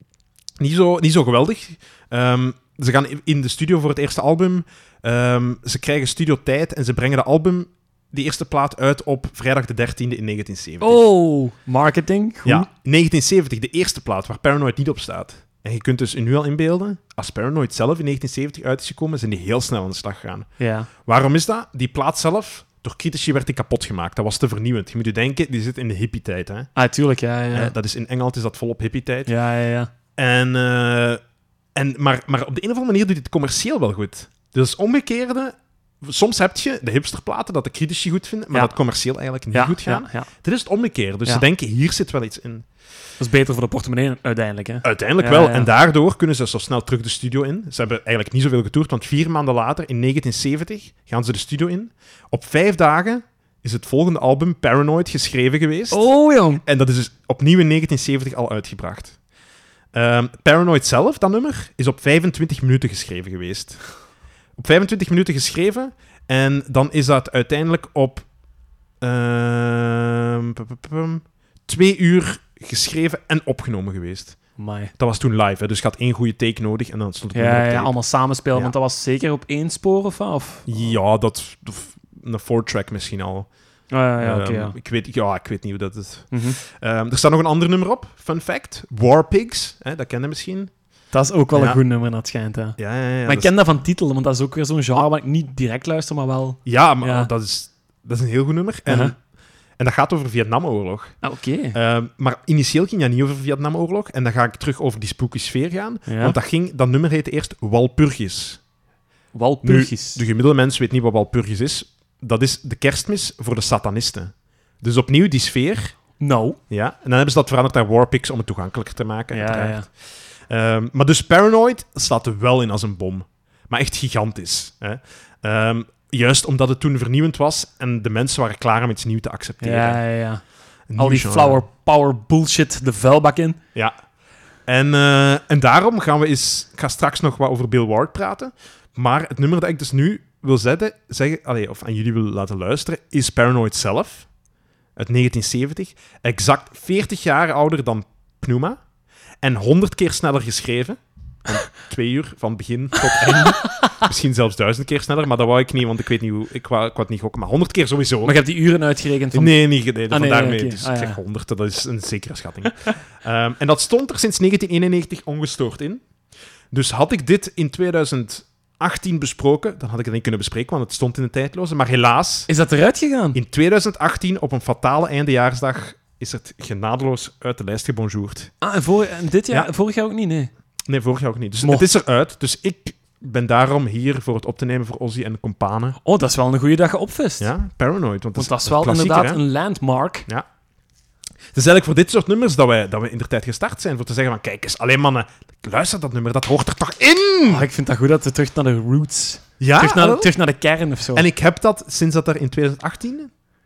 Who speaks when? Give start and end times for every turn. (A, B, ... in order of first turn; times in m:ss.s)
0:00.6-0:11.0 A
0:10.8-0:12.7 B
0:12.4-0:20.5 A
0:20.6-0:20.9 B
0:21.0-0:26.7 A
0:26.8-0:27.7 B
0:27.5-0:29.3 A
0:29.3-0:29.9 B
0:30.2-0:31.2 A
0:31.7-0:42.6 A
0:39.5-0:40.3 B
0:43.2-0:45.7 B
0:44.8-0:56.0 A
0:55.9-0:56.6 B
0:56.6-0:59.2 A
0:59.9-1:03.8 A
1:04.6-1:08.3 A
1:09.0-1:14.4 A
1:14.6-1:14.9 B
1:15.0-1:17.9 A
1:17.3-1:20.7 B
1:20.6-1:23.5 A
1:23.9-1:24.7 B
1:24.2-1:30.7 A
1:26.3-1:26.6 B
1:31.1-1:37.3 B
1:31.5-1:31.8 A
1:32.8-1:33.5 A
1:36.6-1:39.1 A
1:38.9-1:39.1 B
1:39.8-1:41.1 A
1:41.2-1:41.8 B
1:41.7-1:48.6 A
1:46.1-1:46.3 B
1:49.3-1:50.2 B
1:49.6-1:55.9 A
1:56.2-1:56.6 B
1:56.7-1:59.9 A
1:59.3-1:59.8 B
2:00.5-2:10.0 A
2:09.6-2:10.4 B
2:10.9-2:11.6 A
2:11.0-2:13.6 B
2:14.7-2:24.3 A
2:25.0-2:28.8 A
2:29.4-2:38.3 A
2:33.2-2:34.0 B
2:38.2-2:39.6 B
2:39.3-2:46.0 A
2:40.1-2:41.2 B
2:46.7-2:52.5 A
2:52.5-2:53.4 B
2:53.3-2:58.5 A
2:58.6-3:00.5 B
3:00.9-3:06.0 A
3:01.6-3:01.9 B
3:06.0-3:07.5 B
3:07.4-3:09.4 A
3:08.4-3:10.2 B
3:11.5-3:17.6 A
3:17.5-3:21.2 B
3:19.6-3:20.3 A
3:21.1-3:23.3 A